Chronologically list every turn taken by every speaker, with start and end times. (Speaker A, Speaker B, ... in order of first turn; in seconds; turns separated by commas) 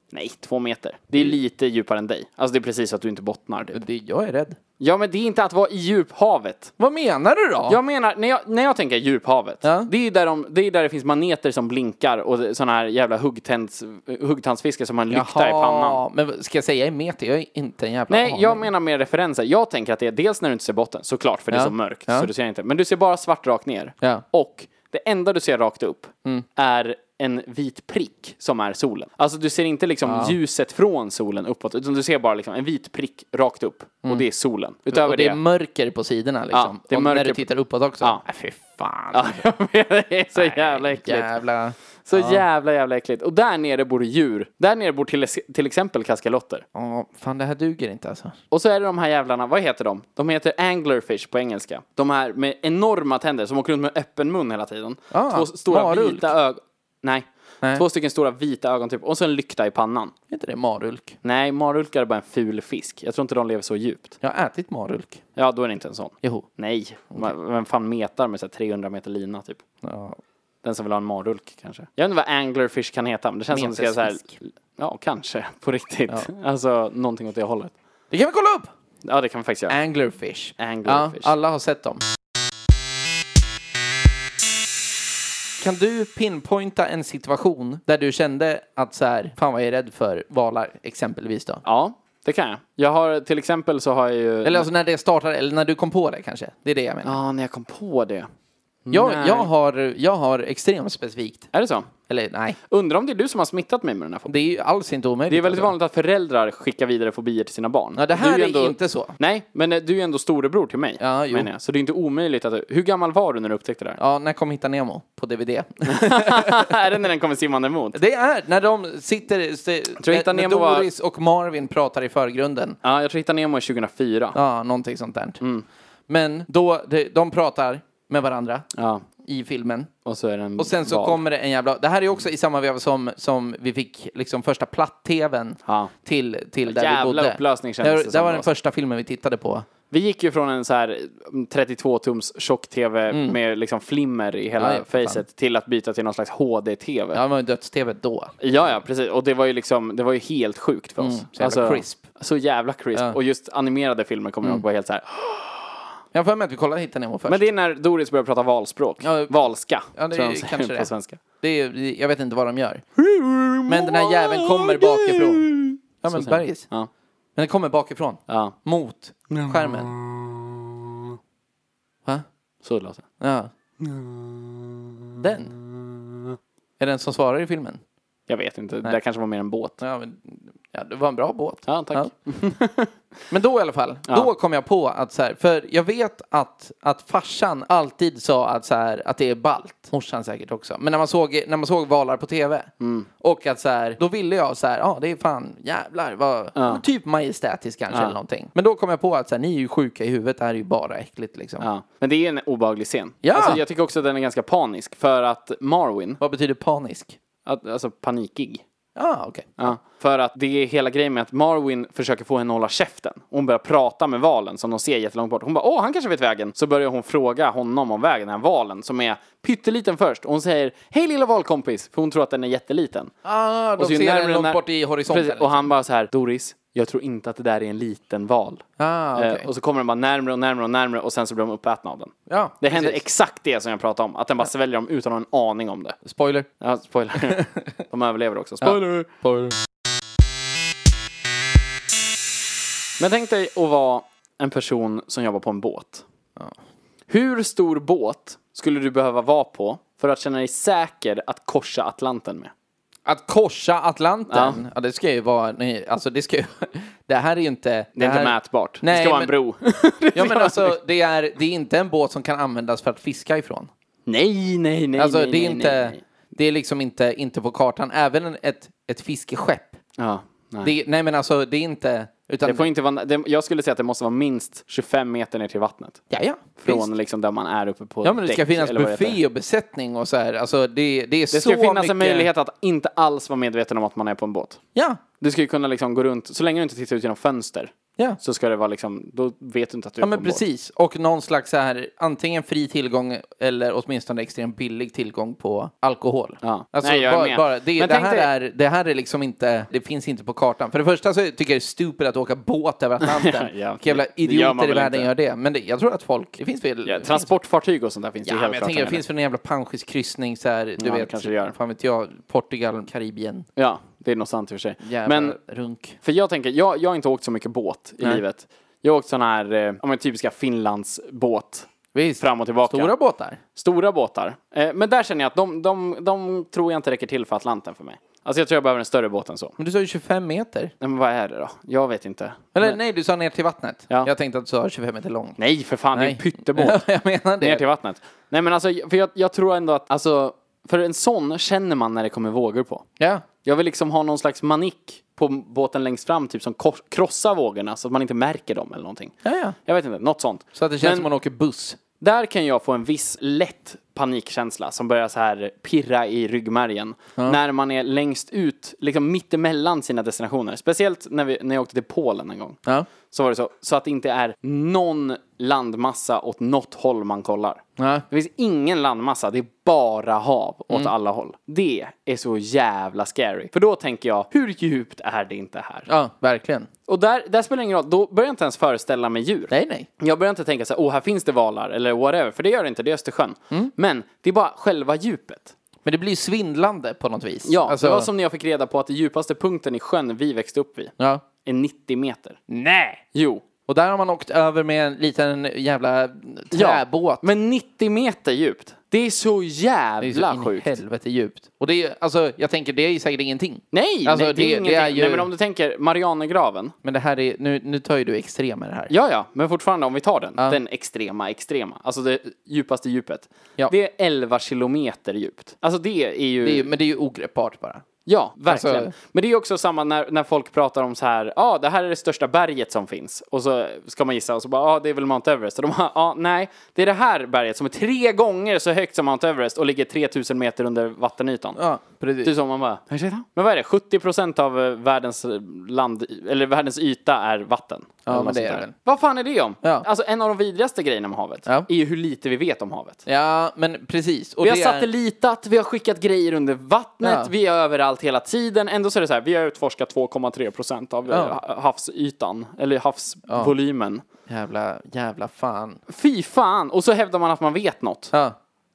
Speaker A: 0.1-3.8, Speaker B: 3.7-4.6, Speaker A: 4.8-6.7, Speaker B: 6.8-7.8, Speaker A: 7.7-16.0, Speaker B: 9.6-9.9, Speaker B: 15.1-18.7, Speaker A: 18.1-35.4, Speaker B: 21.5-22.3, Speaker B: 30.0-30.4, Speaker B: 34.9-39.4, Speaker A: 36.5-37.4, Speaker A: 39.1-41.3, Speaker B: 40.3-42.4, Speaker A: 42.0-46.6, Speaker B: 46.7-48.4, Speaker A: 48.5-60.1, Speaker B: 55.1-56.3, Speaker B: 60.3-61.2, Speaker A: 61.2-64.2, Speaker B: 64.2-65.2, Speaker A: 65.3-69.6, Speaker B: 69.8-70.2, Speaker A: 70.6-77.7, Speaker B: 73.5-74.4, Speaker B: 78.1-78.7, Speaker A: 79.0-79.8, Speaker B: 79.7-82.0, Speaker A: 80.6-81.3, Speaker B: 85.6-91.6, Speaker A: 91.6-94.7, Speaker B: 94.4-97.2, Speaker A: 97.0-98.3, Speaker A: 98.8-99.5, Speaker B: 98.9-101.5, Speaker A: 101.5-101.9, Speaker B: 102.1-102.6, Speaker A: 102.7-104.3, Speaker B: 104.3-105.7, Speaker A: 105.3-114.0, Speaker B: 108.0-109.2, Speaker B: 111.0-111.5, Speaker B: 114.0-116.8, Speaker A: 115.9-118.0, Speaker B: 117.9-122.8, Speaker A: 120.0-120.9, Speaker A: 122.8-124.4, Speaker B: 124.3-125.4, Speaker A: 125.4-125.6, Speaker B: 126.1-128.7, Speaker A: 128.8-129.0, Speaker B: 129.2-129.9, Speaker A: 130.0-131.2, Speaker B: 130.6-139.7, Speaker A: 135.7-135.9, Speaker A: 136.6-138.5, Speaker A: 139.9-147.2, Speaker B: 143.1-143.4, Speaker B: 144.6-145.2, Speaker B: 147.1-148.3, Speaker A: 148.4-155.7, Speaker B: 151.0-152.0, Speaker B: 156.1-157.4, Speaker A: 157.3-161.2, Speaker B: 159.0-159.3, Speaker B: 159.9-160.9, Speaker B: 161.4-162.8, Speaker A: 163.0-166.9, Speaker B: 163.7-165.5, Speaker B: 166.0-166.7, Speaker B: 167.3-169.9, Speaker A: 168.3-168.6, Speaker A: 169.3-170.6, Speaker A: 172.6-173.0, Speaker B: 173.2-173.5, Speaker A: 173.8-176.3, Speaker B: 175.2-175.5, Speaker B: 176.8-177.8, Speaker A: 178.3-179.8, Speaker B: 179.8-182.1, Speaker A: 181.7-182.9, Speaker B: 183.3-201.7, Speaker A: 192.8-193.1, Speaker A: 196.5-196.8, Speaker A: 201.6-206.2, Speaker B: 203.2-203.6, Speaker B: 206.2-207.2, Speaker A: 207.4-208.6, Speaker B: 208.9-209.8, Speaker A: 209.6-223.1, Speaker B: 223.2-225.7, Speaker A: 223.8-228.6, Speaker B: 228.8-229.5, Speaker A: 229.2-236.0, Speaker B: 232.3-233.0, Speaker B: 236.0-236.5, Speaker A: 236.6-239.1, Speaker B: 238.6-239.6, Speaker A: 243.0-246.0, Speaker A: 247.1-252.5, Speaker B: 253.1-259.3, Speaker A: 254.3-254.6, Speaker A: 257.9-260.8, Speaker B: 260.1-263.7, Speaker A: 264.1-266.0, Speaker B: 265.0-269.8, Speaker A: 270.0-270.7, Speaker B: 270.6-272.7, Speaker A: 272.4-276.0, Speaker B: 276.1-276.9, Speaker A: 276.6-279.2, Speaker B: 278.0-282.3, Speaker A: 281.3-284.6, Speaker B: 284.7-285.0, Speaker A: 285.2-290.4, Speaker B: 290.0-307.3, Speaker A: 296.4-298.3, Speaker A: 303.0-305.1, Speaker A: 306.8-309.0, Speaker B: 308.2-313.5, Speaker A: 310.8-311.5, Speaker A: 313.6-315.4, Speaker B: 314.8-316.0, Speaker A: 316.0-322.9, Speaker B: 321.9-323.4, Speaker A: 323.5-329.5, Speaker B: 329.6-330.7, Speaker A: 330.8-332.8, Speaker B: 332.5-335.4, Speaker A: 335.4-336.8, Speaker B: 335.9-337.6, Speaker A: 337.4-342.8, Speaker B: 343.0-343.2, Speaker A: 343.4-351.1, Speaker B: 349.2-349.6, Speaker B: 350.5-351.8, Speaker A: 352.0-375.9, Speaker B: 367.8-368.0, Speaker B: 375.9-376.7, Speaker A: 376.9-385.5, Speaker B: 379.5-379.9, Speaker B: 385.8-388.1, Speaker A: 387.4-392.4, Speaker B: 391.0-391.2, Speaker B: 392.5-393.0, Speaker A: 393.1-393.4, Speaker B: 393.7-397.2, Speaker A: 396.5-400.8, Speaker B: 400.0-405.3, Speaker A: 403.7-406.7, Speaker B: 406.8-408.9, Speaker A: 408.9-416.7, Speaker B: 416.4-417.8, Speaker A: 418.0-431.6, Speaker B: 418.5-418.9, Speaker B: 431.6-432.3, Speaker A: 432.2-443.0, Speaker B: 438.1-438.7, Speaker B: 439.6-439.9, Speaker B: 443.1-444.9, Speaker A: 444.4-454.0, Speaker B: 447.0-447.3, Speaker B: 451.1-451.4, Speaker B: 453.3-453.5, Speaker B: 454.3-455.8, Speaker A: 455.9-458.1